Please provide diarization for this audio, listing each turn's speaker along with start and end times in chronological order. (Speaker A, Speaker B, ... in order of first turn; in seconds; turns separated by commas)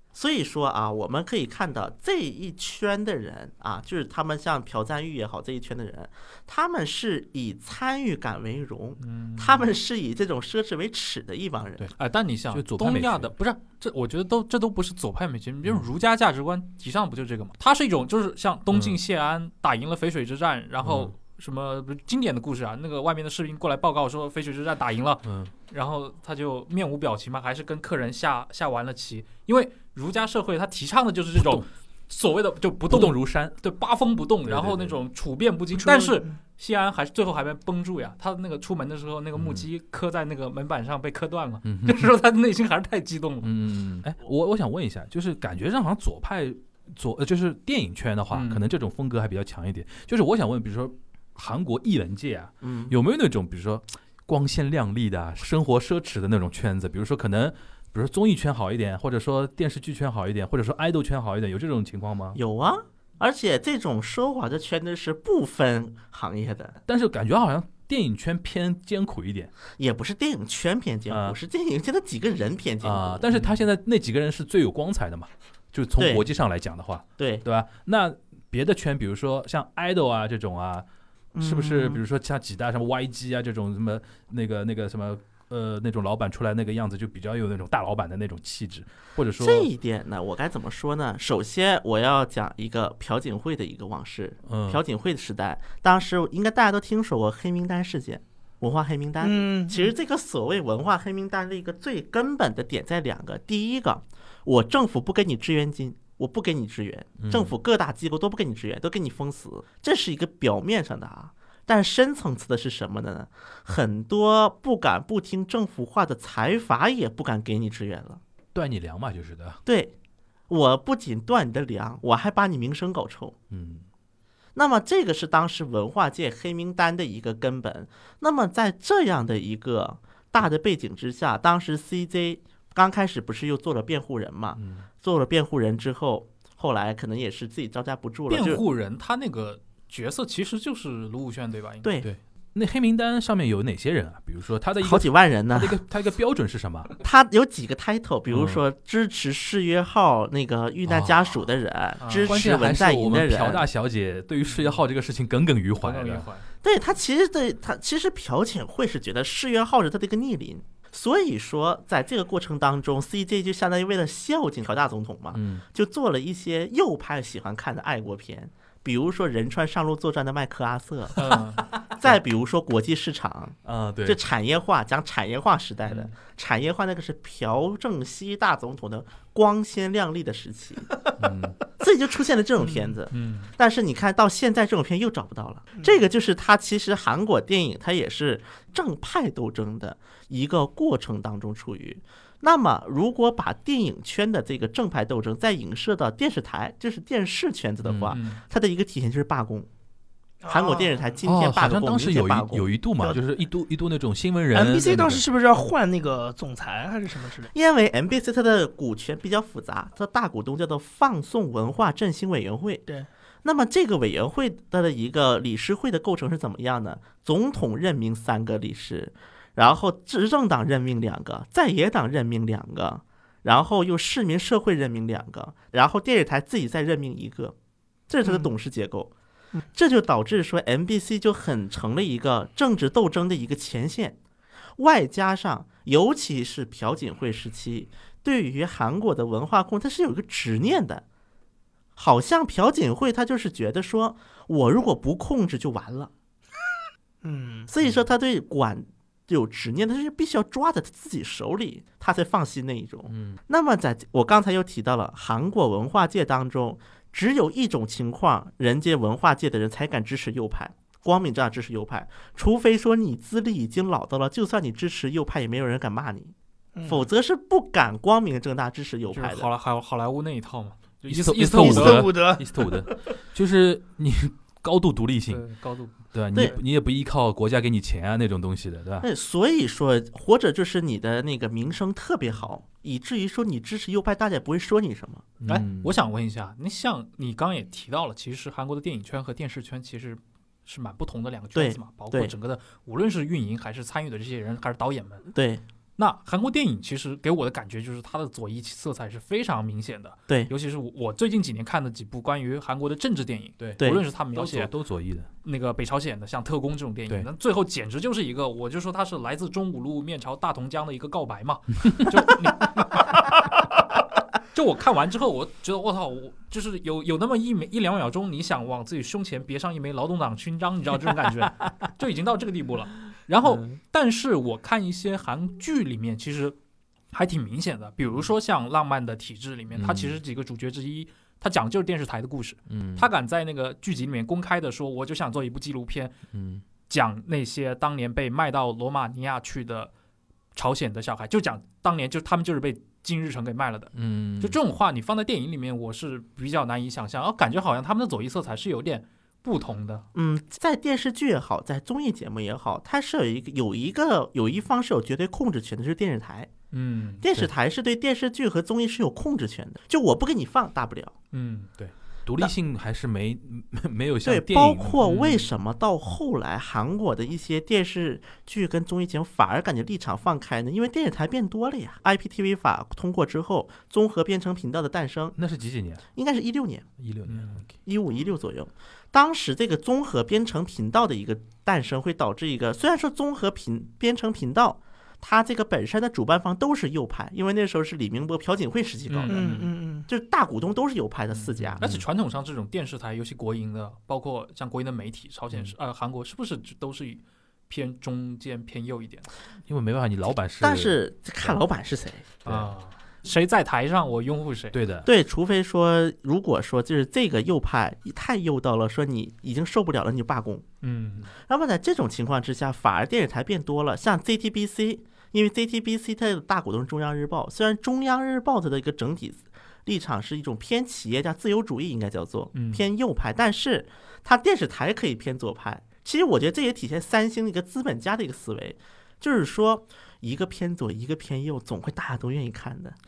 Speaker A: 0.1-11.9, Speaker B: 9.0-9.7, Speaker B: 12.0-43.5, Speaker C: 12.5-13.3, Speaker C: 18.7-19.0, Speaker C: 20.8-21.1, Speaker C: 25.2-25.5, Speaker C: 31.4-31.7, Speaker C: 32.9-33.6, Speaker C: 34.5-35.0, Speaker D: 35.8-36.4, Speaker C: 39.4-39.6, Speaker C: 41.6-42.1, Speaker C: 43.4-62.4, Speaker B: 48.3-48.6, Speaker A: 52.6-53.0, Speaker A: 62.4-66.8, Speaker C: 66.9-69.5, Speaker A: 69.8-73.3, Speaker C: 71.1-71.4, Speaker C: 72.8-80.9, Speaker A: 76.0-76.2, Speaker A: 77.2-77.5, Speaker C: 81.4-89.7, Speaker D: 81.4-82.0, Speaker A: 89.4-118.2, Speaker C: 94.5-94.8, Speaker D: 99.2-99.9, Speaker C: 107.2-107.5, Speaker C: 118.5-119.6, Speaker A: 119.7-119.9, Speaker A: 120.5-123.3, Speaker C: 123.5-123.8, Speaker A: 124.5-138.6, Speaker C: 134.6-134.9, Speaker B: 138.3-141.9, Speaker C: 142.0-146.9, Speaker A: 144.8-145.8, Speaker A: 147.0-153.7, Speaker C: 148.3-148.6, Speaker C: 150.9-151.2, Speaker B: 152.0-152.4, Speaker C: 152.3-156.3, Speaker B: 154.5-154.8, Speaker B: 155.8-156.5, Speaker A: 156.6-171.3, Speaker C: 165.3-165.6, Speaker B: 171.2-171.7, Speaker A: 171.9-181.1, Speaker C: 173.7-174.2, Speaker C: 181.2-181.6, Speaker A: 181.8-199.7, Speaker D: 182.6-183.0, Speaker B: 183.1-183.5, Speaker C: 197.8-198.2, Speaker B: 198.1-198.4, Speaker D: 200.4-201.2, Speaker A: 200.5-202.7, Speaker C: 201.2-205.3, Speaker D: 204.5-207.5, Speaker A: 207.5-212.8, Speaker A: 213.4-227.6, Speaker A: 228.1-229.1, Speaker A: 229.7-234.2, Speaker A: 234.8-241.0, Speaker A: 242.0-246.1, Speaker D: 247.2-247.7, Speaker A: 247.7-266.3, Speaker C: 253.1-253.4, Speaker D: 266.8-267.0, Speaker A: 266.9-269.5, Speaker B: 269.1-272.1, Speaker C: 271.1-275.4, Speaker D: 271.6-272.8, Speaker B: 275.3-276.4, Speaker C: 276.1-279.1, Speaker A: 279.0-285.3, Speaker C: 285.4-285.9, Speaker B: 285.5-295.3, Speaker A: 291.6-292.3, Speaker A: 295.3-295.6, Speaker B: 296.0-304.7, Speaker C: 303.6-305.3, Speaker B: 305.4-313.5, Speaker B: 314.4-326.6, Speaker B: 327.1-336.1, Speaker C: 329.8-330.2, Speaker C: 332.7-333.1, Speaker C: 336.3-336.6, Speaker B: 336.9-339.9, Speaker B: 340.6-350.1, Speaker C: 343.9-344.6, Speaker A: 350.1-356.5, Speaker B: 356.7-357.2, Speaker A: 357.2-361.1, Speaker B: 361.3-361.7, Speaker C: 361.8-365.0, Speaker A: 364.2-375.4, Speaker B: 365.0-365.4, Speaker C: 375.4-376.0, Speaker A: 376.2-376.9, Speaker C: 377.0-377.7, Speaker B: 377.3-377.6, Speaker A: 377.9-389.5, Speaker B: 389.1-389.7, Speaker D: 389.3-390.1, Speaker A: 390.1-391.8, Speaker C: 391.6-392.1, Speaker B: 391.8-399.3, Speaker C: 399.7-401.6, Speaker A: 400.6-402.4, Speaker B: 402.4-404.8, Speaker C: 404.7-405.1, Speaker A: 405.1-410.6, Speaker B: 410.8-411.3, Speaker A: 411.5-433.0, Speaker B: 422.5-422.9